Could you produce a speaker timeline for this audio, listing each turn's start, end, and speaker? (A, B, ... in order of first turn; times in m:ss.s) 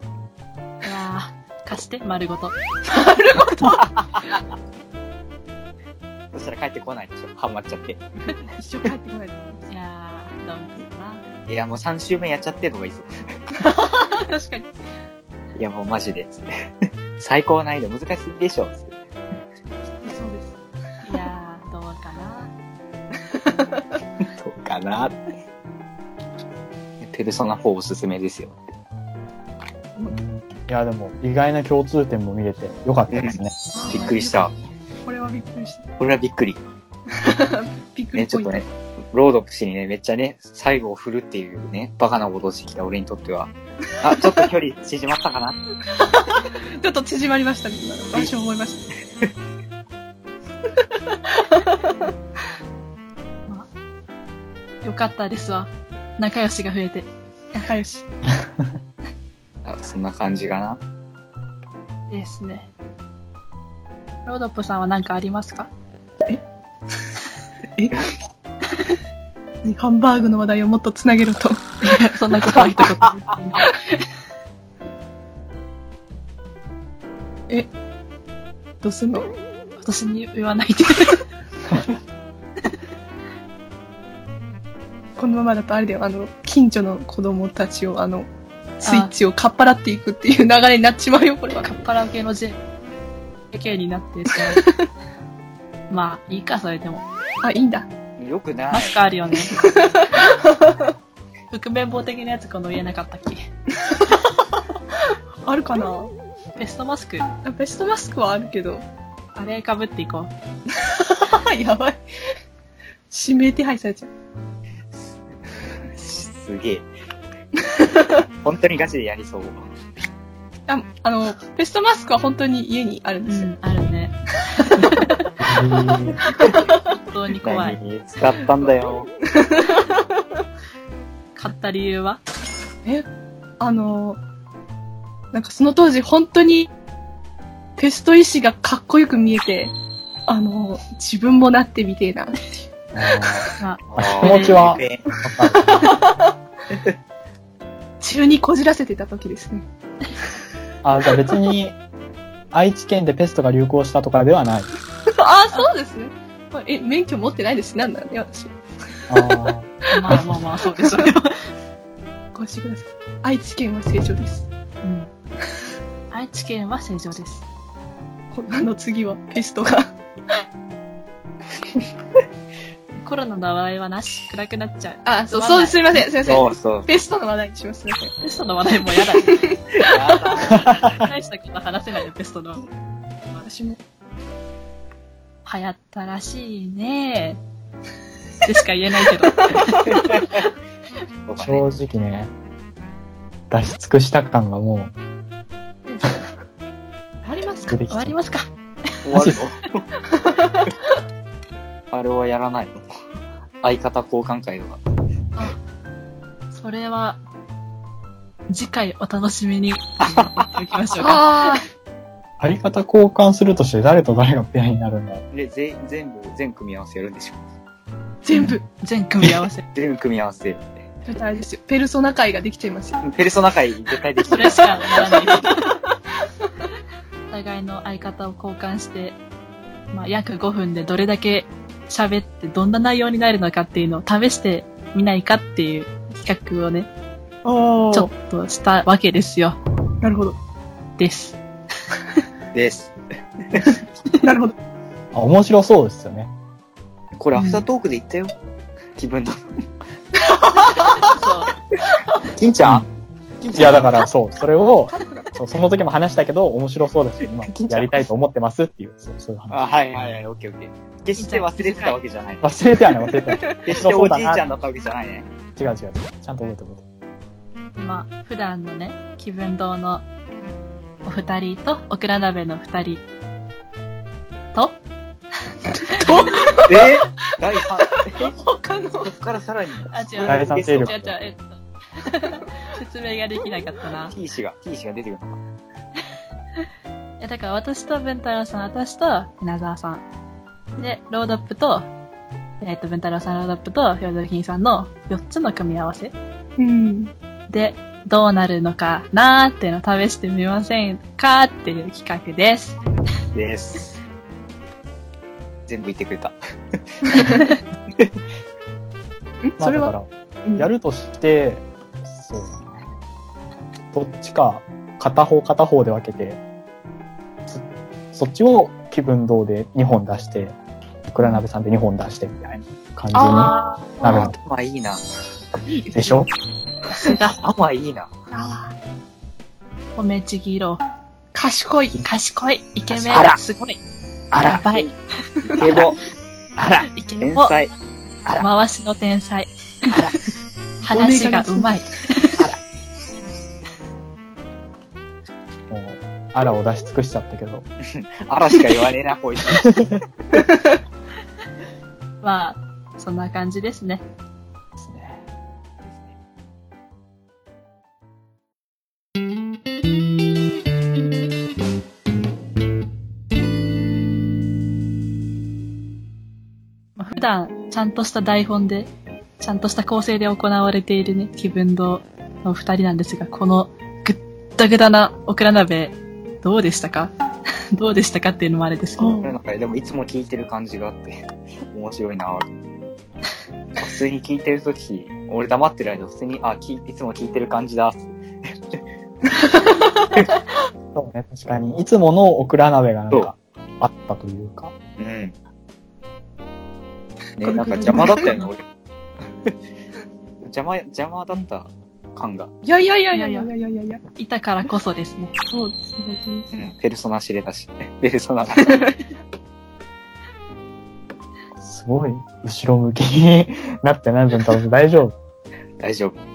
0:00.8-0:02.6 A
0:02.8-0:03.9 B
0:03.7-0:04.4 C
0:06.3-0:08.0 C
0:08.5-0:09.7 B
0:09.7-0:11.2 A
0:11.5-0:13.4 C
0:13.6-0:14.8 B
0:15.6-0:16.4 C
0:17.2-0:18.9 C
0:20.0-0:20.6 B
0:21.1-0:22.5 A
0:23.3-0:23.8 B
0:24.2-0:25.2 C
0:27.0-0:28.6 C
0:30.1-0:33.5 D
0:33.1-0:33.4 C
0:33.7-0:34.4 B
0:33.9-0:34.5 C
0:35.0-0:35.9 B
0:36.0-0:36.6 C
0:37.1-0:38.6 B
0:38.1-0:45.6 C
0:46.8-0:48.9 B
0:51.1-0:52.1 B
0:54.8-0:57.1 A
0:57.6-0:58.0 B
0:59.6-1:00.8 C
1:02.1-1:02.7 A
1:04.2-1:05.7 A
1:07.8-1:08.0 B
1:09.6-1:11.9 B
1:11.8-1:13.8 A
1:18.8-1:19.3 B
1:19.8-1:21.2 A
1:25.2-1:28.3 B
1:28.8-1:31.7 B
1:28.8-1:29.1 A
1:31.6-1:32.6 A
1:33.5-1:34.6 A
1:35.9-1:37.0 A
1:37.4-1:37.9 B
1:38.2-1:39.0 C
1:38.7-1:39.5 A
1:39.4-1:40.9 B
1:41.5-1:43.5 A
1:45.4-1:46.1 B
1:46.6-1:47.3 A
1:47.4-1:48.8 B
1:49.3-1:50.3 A
1:50.7-1:52.0 B
1:53.1-1:54.1 B
1:55.9-1:56.8 C
1:57.6-1:58.2 B
1:58.4-1:59.6 C
2:00.7-2:03.5 B
2:03.2-2:05.0 A
2:05.4-2:06.2 D
2:06.4-2:06.8 B
2:06.9-2:07.8 A
2:07.4-2:09.1 C
2:09.3-2:10.2 B
2:11.4-2:12.2 A
2:13.6-2:14.2 B
2:15.3-2:16.7 B
2:17.8-2:19.7 B
2:20.3-2:22.5 B
2:22.9-2:26.0 D
2:23.6-2:24.6 A
2:23.9-2:25.0 C
2:25.6-2:26.3 B
2:28.0-2:29.6 B
2:30.8-2:31.8 D
2:32.5-2:34.7 D
2:35.1-2:38.5 B
2:39.1-2:40.4 D
2:39.9-2:41.5 A
2:42.3-2:44.5 B
2:44.8-2:45.1 A
2:46.1-2:47.4 A
2:48.3-2:49.9 B
2:53.0-2:55.8 A
2:55.0-2:58.1 B
2:56.2-2:56.9 C
2:58.2-2:59.4 A
2:59.2-3:00.5 B
2:59.8-3:01.0 C
3:00.5-3:00.9 D
3:00.8-3:02.6 A
3:03.4-3:03.8 B
3:05.4-3:07.4 A
3:08.4-3:10.2 A
3:09.2-3:09.6 B
3:09.9-3:10.4 C
3:11.3-3:11.6 C
3:11.4-3:12.3 D
3:13.5-3:14.9 D
3:17.2-3:17.8 B
3:17.7-3:18.2 D
3:17.9-3:18.5 A
3:19.0-3:19.8 C
3:19.1-3:19.4 D
3:20.2-3:20.6 B
3:21.9-3:22.8 C
3:23.6-3:24.8 C
3:26.5-3:27.2 A
3:28.5-3:31.6 A
3:30.0-3:30.5 C
3:31.0-3:31.6 B
3:32.4-3:35.2 D
3:35.3-3:37.4 C
3:38.2-3:38.6 B
3:38.3-3:39.6 A
3:39.7-3:40.7 C
3:41.0-3:43.0 B
3:43.0-3:45.5 C
3:44.3-3:45.5 A
3:45.0-3:45.5 B
3:47.3-3:49.2 A
3:49.9-3:56.9 A
3:57.4-3:58.1 B
3:57.9-3:59.6 A
4:00.0-4:00.4 B
4:01.0-4:01.4 A
4:02.5-4:03.8 C
4:04.2-4:04.5 B
4:05.1-4:06.3 D
4:07.2-4:08.3 C
4:09.0-4:09.4 C
4:11.0-4:11.5 A
4:12.3-4:12.8 C
4:12.6-4:12.9 D
4:13.4-4:14.0 C
4:13.5-4:19.6 D
4:14.9-4:15.3 B
4:17.5-4:18.0 C
4:19.5-4:22.5 C
4:21.2-4:22.0 A
4:22.4-4:24.4 D
4:23.6-4:25.3 C
4:25.6-4:26.8 D
4:27.8-4:30.0 A
4:31.0-4:33.0 A
4:36.0-4:36.3 A
4:36.0-4:37.0 B
4:36.7-4:38.3 C
4:37.8-4:39.1 B
4:39.0-4:41.0 C
4:39.9-4:44.1 A
4:40.2-4:41.1 D
4:44.1-4:45.4 C
4:47.2-4:50.0 A
4:50.8-4:51.9 A
4:52.6-4:56.1 A
4:56.6-4:57.1 B
4:57.5-5:02.8 A
5:03.3-5:04.0 C
5:05.7-5:06.4 C
5:07.1-5:07.3 C
5:07.2-5:07.4 A
5:09.4-5:09.9 B
5:09.6-5:12.7 D
5:13.9-5:16.4 D
5:17.5-5:20.6 D
5:21.1-5:24.3 D
5:23.2-5:24.2 B
5:23.2-5:23.8 A
5:24.0-5:25.0 C
5:25.6-5:26.2 B
5:25.9-5:26.3 D
5:26.9-5:27.4 A
5:27.3-5:28.1 C
5:28.3-5:28.7 B
5:30.0-5:30.8 A
5:31.3-5:32.0 B
5:32.0-5:33.8 A
5:32.9-5:33.4 C
5:34.3-5:34.8 C
5:34.4-5:34.9 A
5:35.4-5:36.0 C
5:36.6-5:37.7 C
5:36.9-5:37.5 A
5:38.4-5:40.0 A
5:40.8-5:42.4 A
5:40.9-5:41.7 B
5:45.7-5:47.6 D
5:47.8-5:50.0 C
5:49.6-5:49.9 D
5:50.3-5:50.8 B
5:52.2-5:54.0 A
5:54.8-5:55.2 D
6:07.0-6:17.1 A
6:17.7-6:19.2 A
6:19.0-6:19.3 B
6:19.2-6:21.2 C
6:21.7-6:22.5 C
6:23.8-6:28.8 C
6:30.9-6:34.7 D
6:35.0-6:35.3 C
6:37.4-6:38.6 C
6:37.4-6:38.4 B
6:40.4-6:42.5 C
6:42.6-6:44.0 B
6:43.1-6:43.5 A
6:44.1-6:45.3 A
6:45.5-6:46.5 B
6:46.5-6:48.9 C
6:48.6-6:48.9 B
6:51.6-6:55.1 D
6:55.8-6:56.2 C